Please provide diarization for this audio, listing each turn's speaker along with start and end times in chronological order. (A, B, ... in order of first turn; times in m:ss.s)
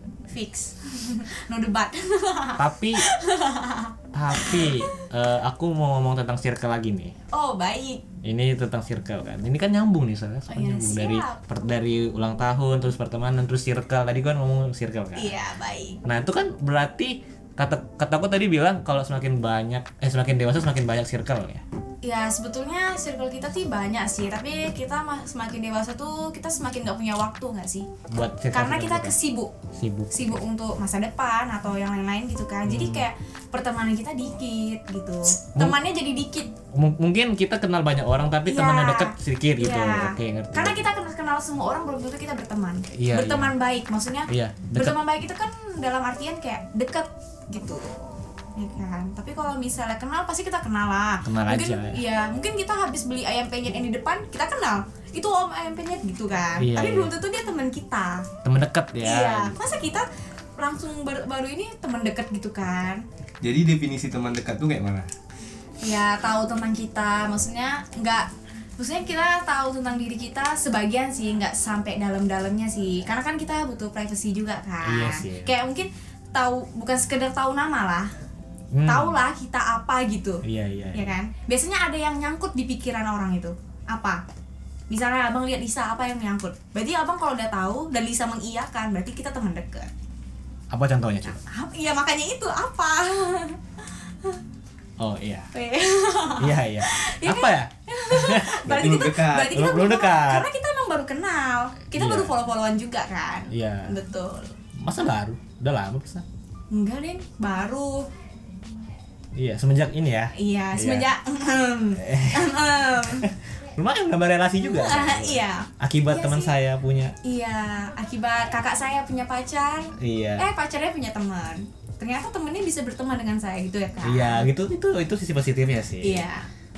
0:00.3-0:04.9 A
0:02.6-0:03.1 B
0:04.1-0:07.2 B
0:07.3-0:08.0 A
0:08.2-0:15.3 B
0:10.5-0:11.4 A
0:15.2-0:16.0 A
0:16.0-0:21.6 B
0:22.0-0:27.9 A
0:28.1-0:29.2 B
0:28.5-0:29.5 A
0:29.7-0:30.4 B
0:30.1-0:36.5 A
0:32.7-0:33.0 B
0:36.7-0:40.8 B
0:38.4-0:48.0 A
0:42.9-0:43.5 B
0:44.3-0:45.0 B
0:48.6-0:58.3 A
0:51.2-0:52.0 B
0:56.6-0:57.1 B
0:58.4-0:59.6 B
0:59.0-1:03.0 A
1:03.4-1:05.1 C
1:05.8-1:18.1 A
1:14.8-1:15.5 B
1:18.7-1:19.2 B
1:18.8-1:24.2 A
1:20.4-1:21.1 B
1:24.9-1:29.9 A
1:30.7-1:31.4 B
1:31.2-1:34.4 A
1:35.0-1:35.5 B
1:35.5-1:44.6 A
1:36.4-1:40.5 B
1:38.7-1:39.6 C
1:41.9-1:42.3 B
1:43.5-1:44.0 B
1:44.8-1:46.2 B
1:46.7-1:48.1 A
1:49.4-1:51.1 B
1:50.3-1:53.3 A
1:52.0-1:57.2 B
1:54.6-1:56.6 A
1:57.2-2:04.5 A
2:00.0-2:00.5 B
2:04.0-2:06.2 B
2:06.0-2:06.5 A